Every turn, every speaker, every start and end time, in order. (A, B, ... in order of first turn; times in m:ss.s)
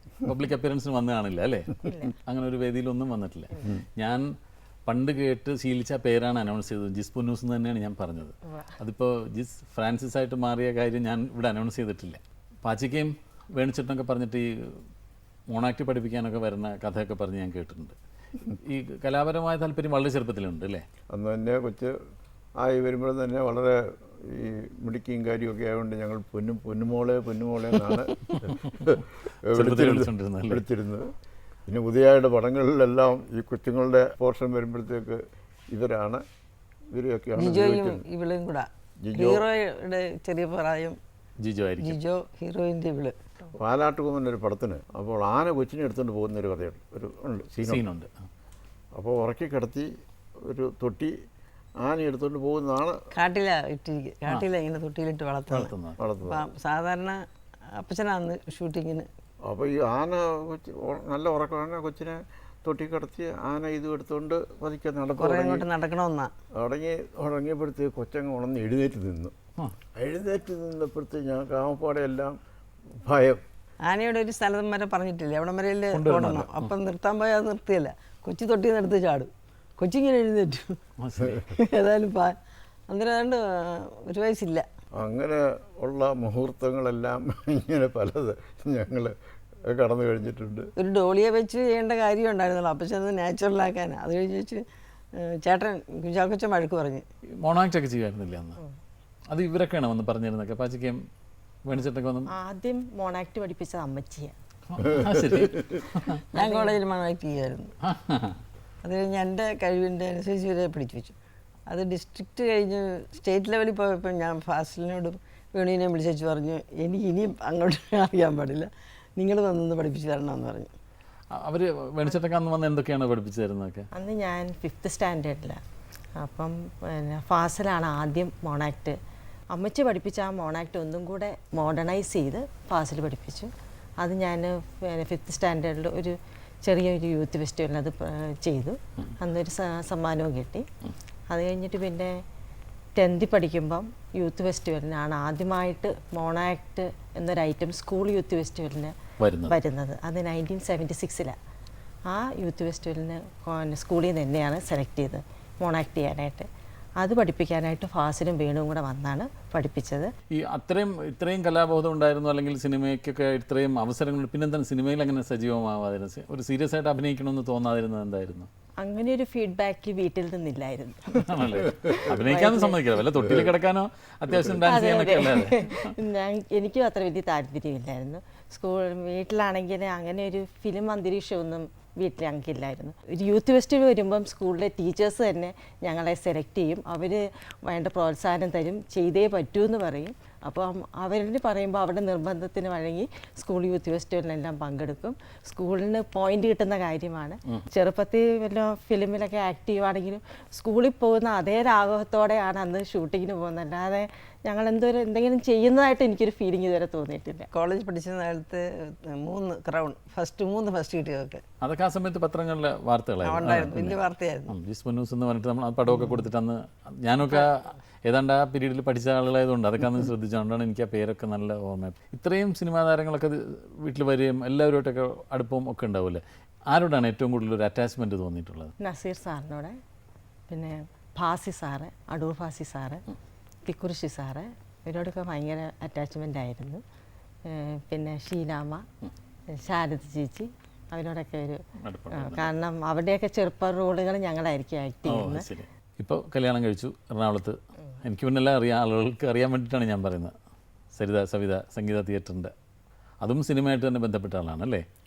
0:00.2-0:04.3 A
0:01.8-0:02.1 B
0:04.9-0:14.8 A
0:15.5-0:20.8 A
0:21.1-0:22.0 C
0:22.6-0:31.1 C
0:29.5-0:30.6 A
0:31.7-0:36.2 C
0:36.9-0:38.0 C
0:37.4-0:41.0 D
0:39.0-0:39.4 C
0:41.4-0:42.0 A
0:41.8-0:43.2 D
0:43.5-0:47.8 C
0:47.6-0:48.1 A
0:49.0-0:51.2 C
0:51.8-0:53.0 C
0:53.1-0:57.2 D
0:55.5-0:56.0 A
0:56.0-0:56.4 C
0:57.7-0:59.1 D
0:59.5-1:05.7 C
1:05.2-1:06.3 D
1:06.6-1:09.3 C
1:10.0-1:12.4 C
1:13.0-1:13.4 C
1:13.8-1:20.8 D
1:15.9-1:16.7 A
1:21.0-1:21.4 A
1:21.5-1:22.4 D
1:22.9-1:24.6 D
1:25.0-1:29.2 C
1:29.7-1:30.7 C
1:30.8-1:34.6 D
1:35.2-1:37.1 D
1:37.3-1:38.6 A
1:39.3-1:41.0 A
1:41.7-1:42.3 A
1:42.3-1:44.3 B
1:44.7-1:46.2 A
1:46.3-1:46.8 B
1:46.3-1:47.7 D
1:47.8-1:48.4 A
1:48.8-1:51.2 D
1:51.7-2:00.7 D
2:01.3-2:03.9 A
2:03.9-2:05.6 B
2:06.2-2:09.0 B
2:09.5-2:20.7 B
2:21.3-2:22.2 B
2:23.0-2:29.0 B
2:29.2-2:29.6 A
2:29.5-2:31.4 B
2:32.1-2:36.5 B
2:37.0-2:40.1 B
2:40.3-2:48.5 A
2:48.8-2:52.8 B
2:51.2-2:55.9 A
2:54.6-3:27.5 B
3:27.5-3:31.4 D
3:31.6-3:48.7 A
3:33.2-3:34.5 D
3:48.8-3:49.8 B
3:50.5-3:53.0 B
3:53.7-3:56.8 B
3:57.5-3:58.8 B
3:59.5-4:01.6 B
4:01.8-4:02.5 A
4:02.1-4:05.5 B
4:05.1-4:10.3 A
4:11.0-4:12.5 A
4:13.2-4:14.8 A